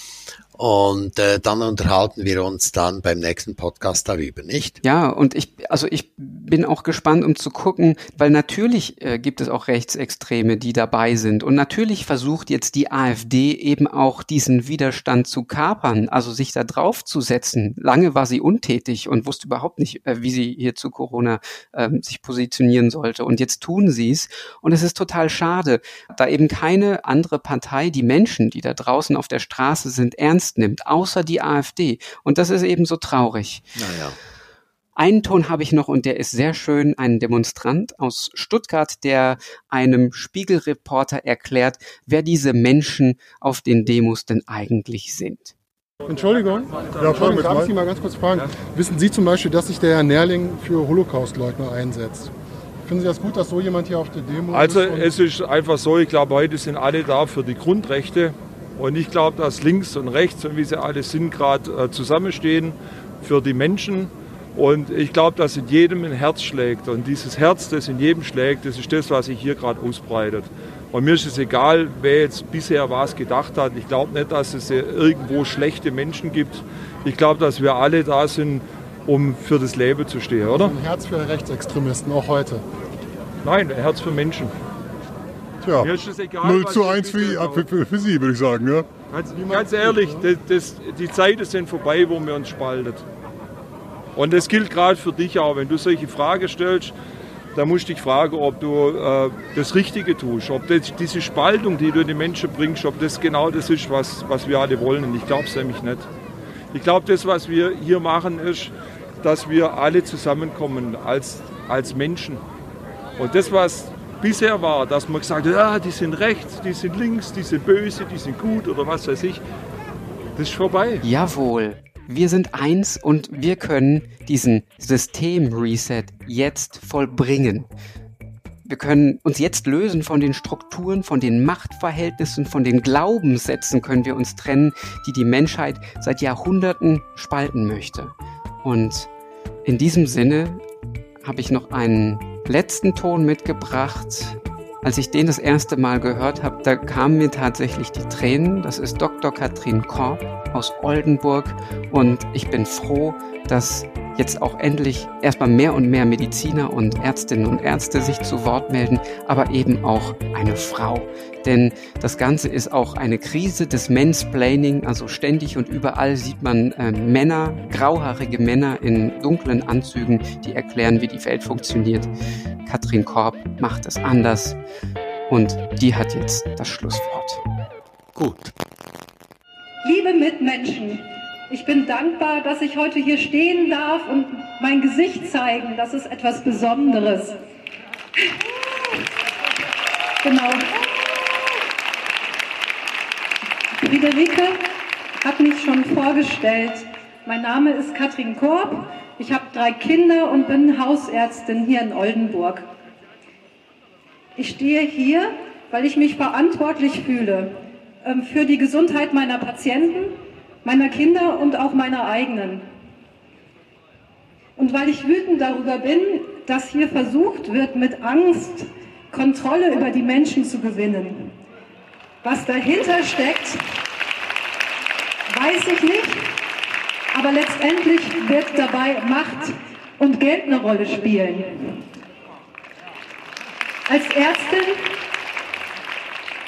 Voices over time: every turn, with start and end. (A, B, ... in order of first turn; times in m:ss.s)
0:00.5-0:04.8 A
0:04.8-0:33.7 B
0:33.8-0:34.2 A
0:35.0-0:45.5 B
0:46.1-0:52.3 C
0:46.3-0:47.8 D
0:52.8-0:55.1 C
0:54.5-1:20.8 D
1:20.4-1:22.6 C
1:23.4-1:24.5 D
1:25.6-1:30.3 C
1:25.8-1:27.7 D
1:29.1-1:33.0 D
1:34.2-1:36.9 D
1:37.5-1:46.1 D
1:46.7-1:52.4 D
1:53.2-1:59.4 D
2:00.4-2:01.0 D
2:01.0-2:07.7 B
2:08.6-2:18.1 B
2:18.6-2:19.1 B
2:19.6-2:20.6 B
2:21.2-2:52.1 B
2:52.6-2:54.6 B
2:55.3-2:57.4 B
2:58.1-2:58.5 A
2:59.8-3:07.4 E
3:10.2-3:10.7 E
3:13.8-3:14.6 E
3:15.2-3:22.7 E
3:24.4-3:32.6 E
3:34.6-3:41.4 E
3:42.2-3:43.6 E
3:45.3-3:46.3 E
3:47.1-3:51.8 E
3:53.9-3:54.8 E